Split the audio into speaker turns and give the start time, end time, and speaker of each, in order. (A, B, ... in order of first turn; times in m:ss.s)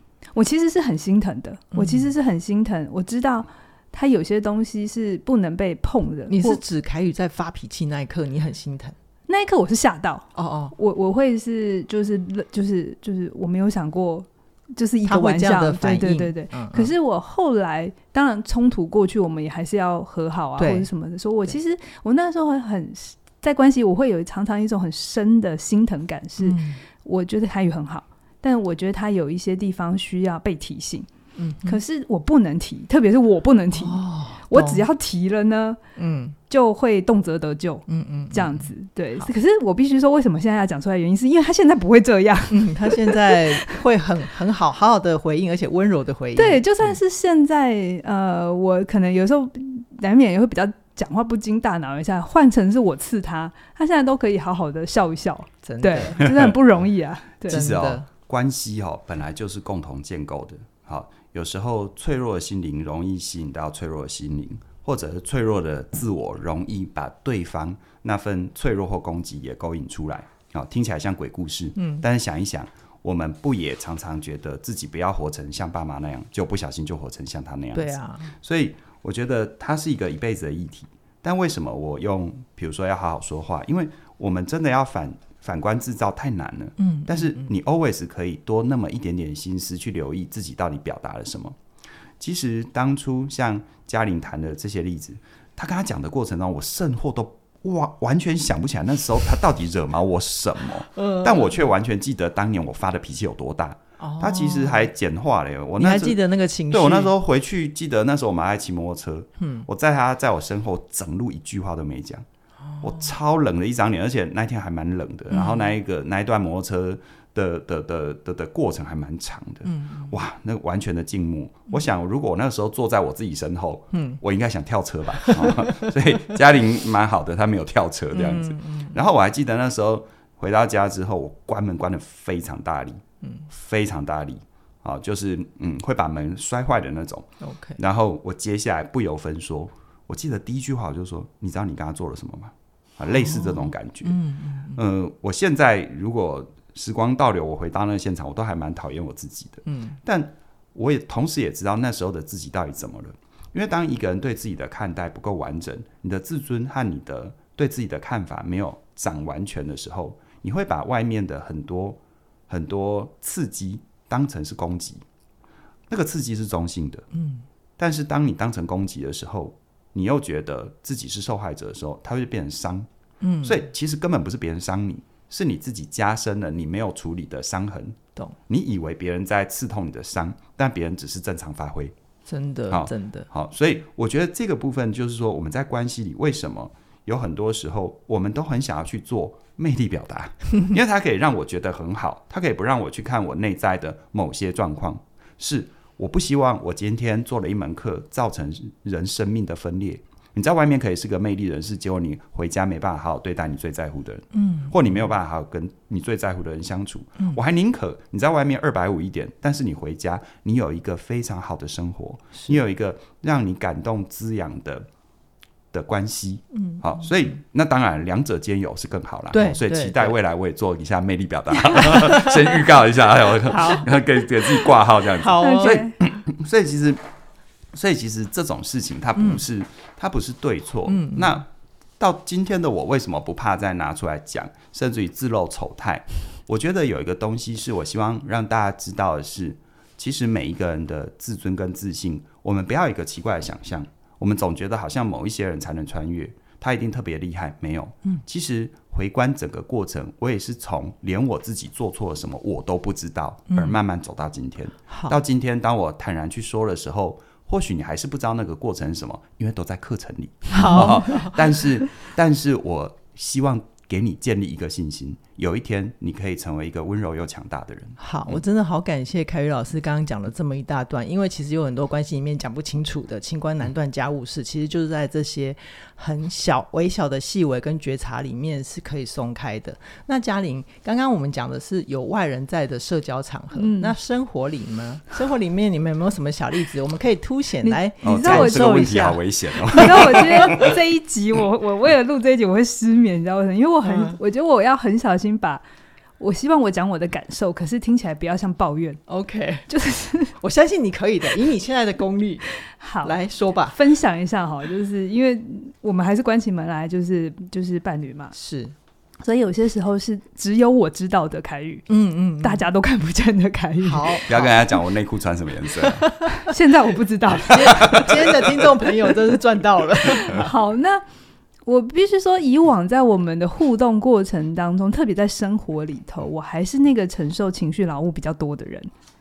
0:00.4-0:06.6 A
0:01.7-0:02.1 B
0:06.3-0:09.0 B
0:09.3-0:31.1 A
0:10.4-0:10.8 B
0:15.1-0:16.9 B
0:20.6-0:20.9 B
0:26.4-0:26.8 B
0:31.4-0:31.8 B
0:31.6-0:35.8 A
0:33.7-0:34.9 B
0:36.0-0:36.4 B
0:36.5-0:43.8 A
0:37.9-0:39.3 B
0:42.5-0:47.0 B
0:46.4-0:57.6 A
0:55.6-0:56.2 B
0:57.5-0:58.0 B
0:57.5-1:31.6 C
1:11.8-1:12.1 B
1:17.8-1:18.3 B
1:26.8-1:27.5 B
1:32.2-1:46.2 C
1:41.0-1:41.7 B
1:44.0-1:44.9 B
1:45.8-1:47.1 B
1:46.7-1:52.2 C
1:49.4-1:49.7 B
1:52.7-1:53.1 B
1:52.8-2:24.2 C
1:55.3-1:55.7 B
1:59.7-2:00.1 B
2:03.9-2:04.2 B
2:05.2-2:06.0 B
2:08.1-2:09.0 B
2:17.4-2:17.8 B
2:23.1-2:24.8 B
2:24.8-2:45.0 C
2:29.7-2:30.0 B
2:45.9-2:47.1 C
2:47.1-2:47.4 B
2:47.8-2:52.9 C
2:53.2-2:53.6 B
2:53.4-3:02.0 C
3:02.3-3:03.3 B
3:02.7-3:34.9 C
3:24.3-3:24.8 B
3:35.7-3:47.0 C
3:36.5-3:36.8 B
3:39.3-3:40.1 B
3:41.7-3:42.4 B
3:43.5-3:43.9 B
3:45.2-3:45.8 B
3:45.4-3:46.0 A
3:47.7-3:51.5 C
3:49.2-3:49.4 B
3:50.9-3:51.4 B
3:52.0-4:28.4 C
4:13.5-4:13.8 B
4:14.9-4:15.2 B
4:20.5-4:21.6 B
4:28.0-4:50.7 B
4:43.6-4:44.0 A
4:47.6-4:49.0 A
4:48.0-4:50.8 C
4:49.7-4:55.6 A
4:53.8-4:54.2 B
4:56.2-4:59.0 A
4:59.1-4:59.7 B
4:59.7-5:00.3 A
5:00.4-5:02.5 B
5:02.7-5:03.2 A
5:03.0-5:03.8 B
5:03.7-5:08.4 A
5:08.4-5:08.7 B
5:09.2-5:11.9 A
5:11.9-5:12.6 B
5:12.4-5:14.2 A
5:13.8-5:14.6 B
5:14.3-5:16.1 C
5:15.8-5:16.5 B
5:16.4-5:18.1 A
5:17.4-5:20.5 B
5:17.6-5:18.7 C
5:20.1-5:21.0 A
5:21.7-5:28.9 A